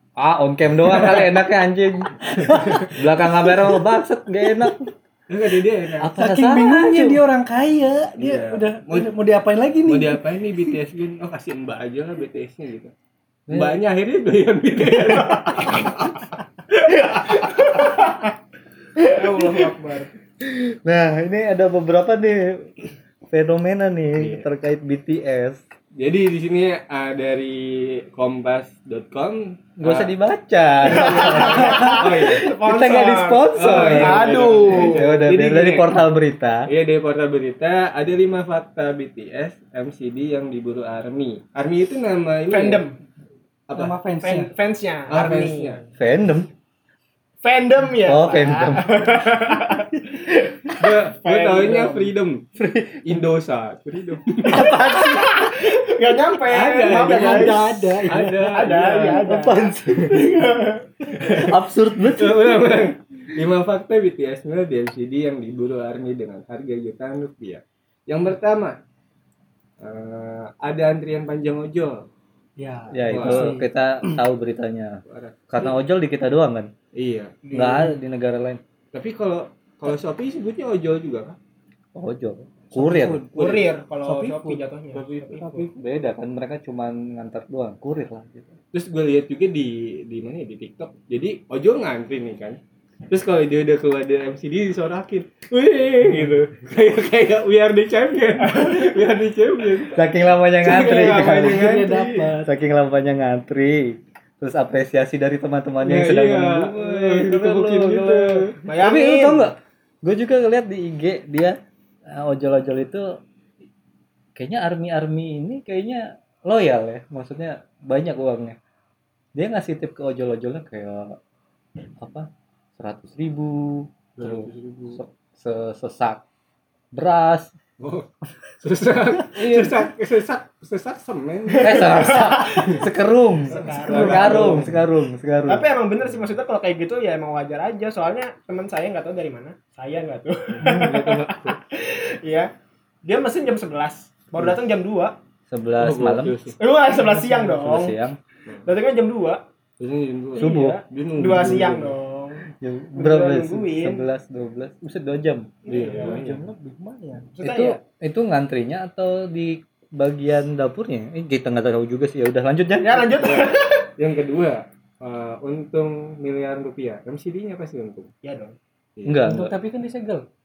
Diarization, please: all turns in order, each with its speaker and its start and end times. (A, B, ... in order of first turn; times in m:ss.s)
0:00.2-0:04.9 A
0:02.4-0:02.9 B
0:02.4-0:02.9 C
0:05.3-0:06.1 C
0:06.0-0:07.2 A
0:06.1-0:10.2 B
0:08.2-0:09.2 C
0:09.8-0:12.9 C
0:13.5-0:16.2 C
0:17.6-0:18.0 D
0:19.0-0:19.3 A
0:19.0-0:20.1 D
0:20.4-0:22.7 A
0:23.3-0:25.6 A
0:24.2-0:24.4 C
0:25.9-0:30.1 C
0:29.8-0:36.7 A
0:30.8-0:35.0 D
0:30.9-0:32.5 C
0:33.5-0:36.0 C
0:36.7-0:42.9 C
0:42.5-0:42.9 D
0:43.7-0:44.0 C
0:43.7-0:44.5 B
0:44.2-0:45.8 D
0:45.1-0:45.8 C
0:46.0-0:46.5 A
0:47.4-0:52.1 D
0:48.0-0:49.4 A
0:50.8-0:52.4 C
0:52.6-0:53.2 A
0:53.0-0:54.7 C
0:54.4-0:55.5 A
0:54.6-0:57.8 D
0:56.5-0:59.3 C
0:56.8-0:58.5 B
0:58.4-1:01.4 D
0:59.1-1:00.4 A
1:01.2-1:08.8 C
1:01.2-1:02.6 A
1:09.8-1:12.0 C
1:12.6-1:14.2 B
1:12.9-1:16.7 A
1:13.1-1:13.6 C
1:15.1-1:15.4 C
1:16.9-1:17.5 C
1:17.5-1:17.8 B
1:17.5-1:18.6 A
1:18.9-1:21.4 C
1:21.9-1:23.2 A
1:22.7-1:23.7 C
1:22.8-1:23.2 B
1:23.3-1:25.3 D
1:24.0-1:24.6 B
1:24.9-1:25.7 C
1:25.2-1:25.7 B
1:25.7-1:28.5 A
1:28.7-1:40.0 C
1:39.9-1:41.7 A
1:40.6-1:42.3 C
1:40.6-1:42.5 B
1:42.4-1:53.1 A
1:45.8-1:48.6 C
1:48.6-1:49.5 D
1:54.3-1:58.6 A
1:59.3-2:01.2 A
2:02.0-2:06.2 A
2:04.2-2:05.0 C
2:06.9-2:07.5 A
2:07.8-2:12.8 C
2:11.6-2:15.6 A
2:11.6-2:12.6 D
2:13.5-2:14.6 D
2:13.5-2:14.8 C
2:15.5-2:22.5 D
2:20.6-2:21.6 C
2:23.0-2:25.1 D
2:25.5-2:26.4 A
2:25.8-2:26.6 C
2:26.6-2:27.9 D
2:27.0-2:27.4 B
2:27.4-2:28.2 A
2:28.6-2:29.4 D
2:29.8-2:32.0 C
2:30.4-2:32.4 D
2:30.4-2:30.8 A
2:32.5-2:35.6 A
2:32.9-2:34.0 D
2:35.6-2:36.2 D
2:35.7-2:36.4 C
2:35.7-2:37.3 B
2:37.3-2:37.8 D
2:37.4-2:43.2 A
2:42.8-2:43.9 D
2:43.2-2:48.1 C
2:48.2-2:48.6 D
2:49.0-2:49.3 C
2:49.0-2:49.5 A
2:49.2-2:50.2 B